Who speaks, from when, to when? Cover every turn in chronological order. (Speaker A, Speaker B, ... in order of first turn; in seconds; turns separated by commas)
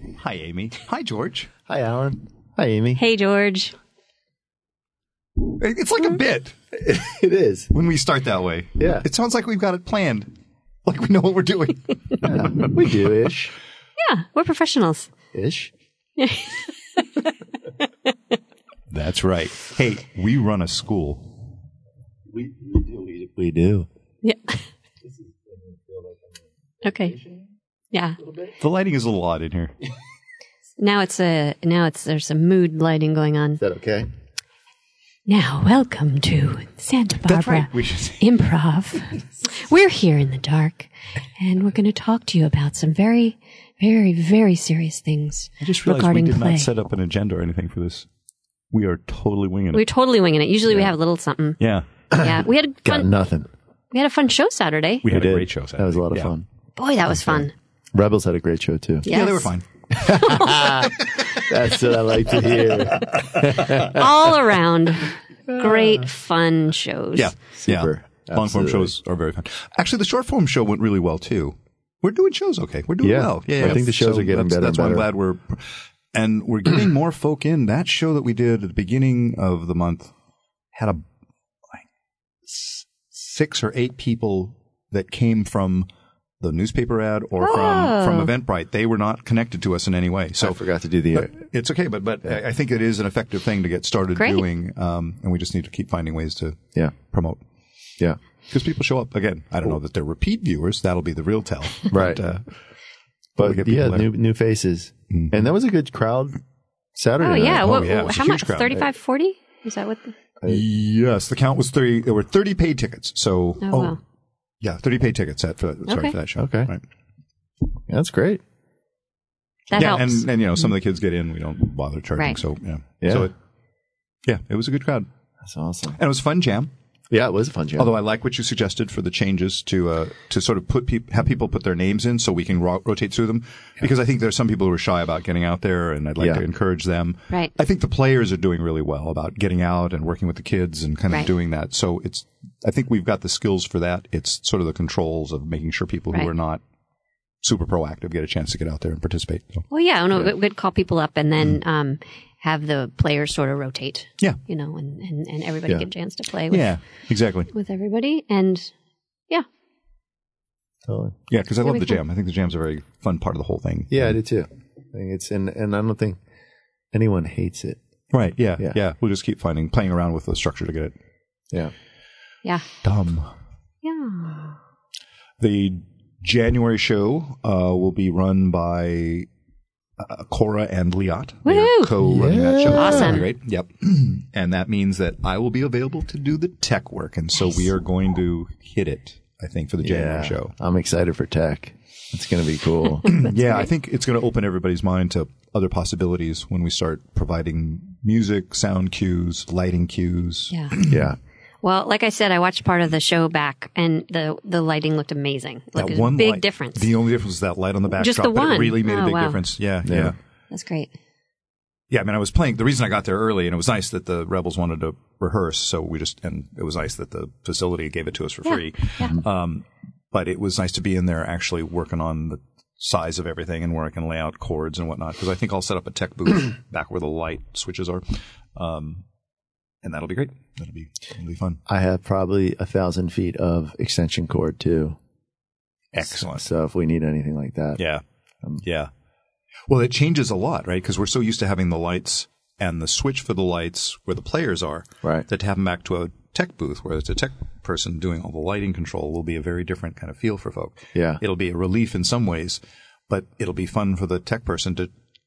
Speaker A: 0.1-1.5, Speaker B: 1.7-3.0, Speaker C: 3.0-3.7, Speaker A: 5.5-6.8, Speaker B: 6.8-7.7, Speaker A: 7.7-10.3, Speaker B: 8.8-9.1, Speaker A: 10.8-12.8, Speaker B: 12.2-13.5, Speaker C: 14.0-15.1, Speaker B: 15.3-15.7, Speaker C: 16.2-17.3, Speaker A: 18.9-21.4, Speaker B: 22.3-23.9, Speaker C: 24.2-24.6, Speaker B: 25.1-26.4, Speaker C: 26.8-27.2, Speaker B: 27.2-27.4, Speaker C: 27.9-28.2, Speaker A: 28.6-29.7, Speaker C: 30.8-33.6, Speaker B: 33.6-34.1, Speaker C: 35.3-46.7, Speaker A: 37.2-38.3, Speaker A: 45.6-48.1, Speaker A: 48.7-49.9, Speaker C: 49.7-51.6, Speaker A: 51.6-51.9, Speaker C: 52.1-53.1, Speaker B: 52.1-53.5, Speaker C: 53.9-55.1, Speaker A: 55.0-56.3, Speaker B: 55.0-56.5, Speaker C: 56.8-57.5, Speaker B: 57.1-59.1, Speaker C: 59.0-59.5, Speaker A: 59.0-61.6, Speaker B: 60.0-64.1, Speaker C: 60.0-60.8, Speaker A: 62.3-64.0, Speaker C: 63.6-67.3, Speaker B: 65.5-66.1, Speaker A: 67.2-80.1, Speaker B: 67.6-68.9, Speaker B: 73.0-75.1, Speaker A: 80.7-81.0, Speaker A: 82.5-85.9, Speaker A: 86.4-90.6, Speaker C: 87.4-88.3, Speaker B: 90.4-91.3, Speaker A: 91.1-97.4, Speaker C: 94.2-94.4, Speaker A: 98.5-102.5, Speaker B: 101.9-102.2, Speaker B: 103.4-106.4, Speaker A: 103.4-104.1, Speaker A: 105.1-105.4, Speaker B: 106.9-107.7, Speaker C: 107.2-110.1, Speaker A: 107.4-108.8, Speaker A: 110.5-114.0, Speaker C: 113.6-114.0, Speaker A: 114.6-116.8, Speaker C: 115.9-116.2, Speaker B: 116.4-116.7, Speaker B: 117.9-118.4, Speaker C: 119.7-120.3, Speaker A: 119.8-123.3, Speaker B: 123.0-123.3, Speaker A: 124.2-125.1, Speaker B: 125.4-126.0, Speaker A: 126.0-126.7, Speaker B: 127.1-128.0, Speaker A: 127.8-146.6, Speaker A: 147.4-149.7, Speaker C: 149.7-156.7, Speaker A: 156.5-157.5, Speaker C: 157.5-158.7, Speaker B: 160.9-161.2, Speaker A: 161.3-164.1, Speaker C: 161.6-162.0, Speaker B: 163.9-166.2, Speaker B: 166.9-167.8, Speaker A: 168.1-170.9, Speaker A: 172.8-173.3, Speaker C: 173.8-174.6, Speaker A: 175.4-179.3, Speaker A: 180.0-190.5, Speaker C: 181.4-181.9, Speaker B: 182.0-183.2, Speaker C: 182.7-183.3, Speaker B: 189.8-193.1, Speaker A: 193.1-201.1, Speaker B: 200.8-201.2, Speaker C: 201.6-206.9, Speaker A: 205.8-210.2, Speaker C: 208.0-209.4, Speaker B: 209.8-210.2, Speaker C: 210.5-210.9, Speaker A: 211.9-228.0, Speaker C: 218.5-219.2, Speaker A: 228.6-229.0, Speaker A: 229.8-231.6, Speaker B: 231.7-235.0, Speaker A: 235.9-236.5, Speaker B: 236.1-237.8, Speaker A: 237.8-238.0, Speaker A: 238.6-238.9, Speaker A: 239.7-254.9, Speaker B: 250.9-251.2